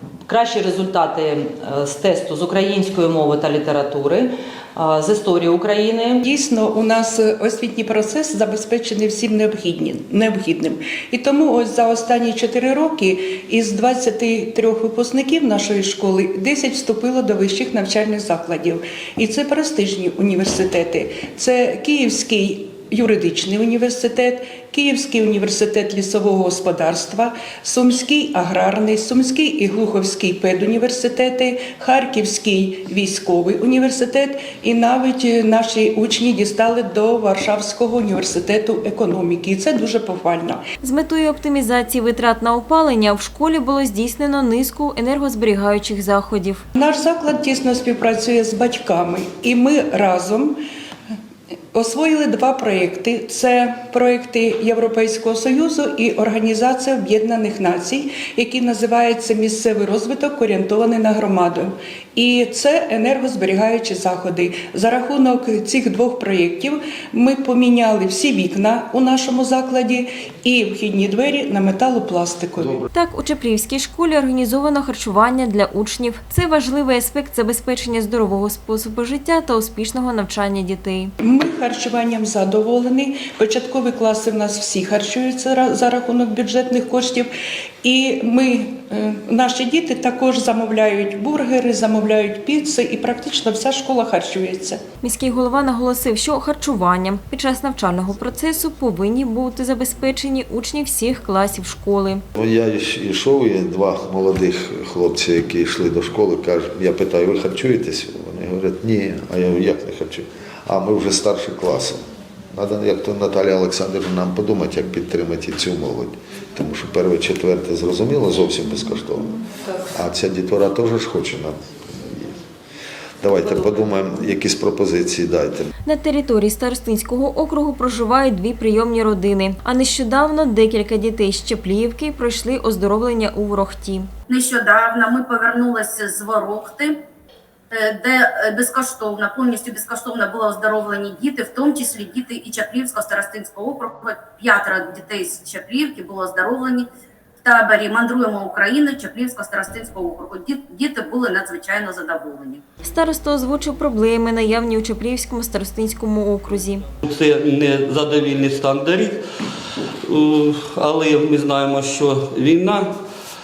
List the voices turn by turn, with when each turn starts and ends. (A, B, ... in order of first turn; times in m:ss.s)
0:00.3-0:06.2 A
0:06.2-0:40.6 B
0:40.8-0:46.6 C
0:46.7-0:50.6 B
0:51.7-1:12.8 B
1:12.9-1:21.1 C
1:21.2-1:27.3 B
1:27.8-1:34.8 B
1:35.0-1:42.2 C
1:42.3-1:52.0 D
1:52.5-2:02.4 D
2:03.2-2:05.7 D
2:05.8-2:14.1 C
2:14.3-2:17.0 E
2:17.7-2:26.9 E
2:27.4-2:32.6 E
2:32.8-2:36.8 C
2:37.0-2:39.2 F
2:40.0-2:42.9 F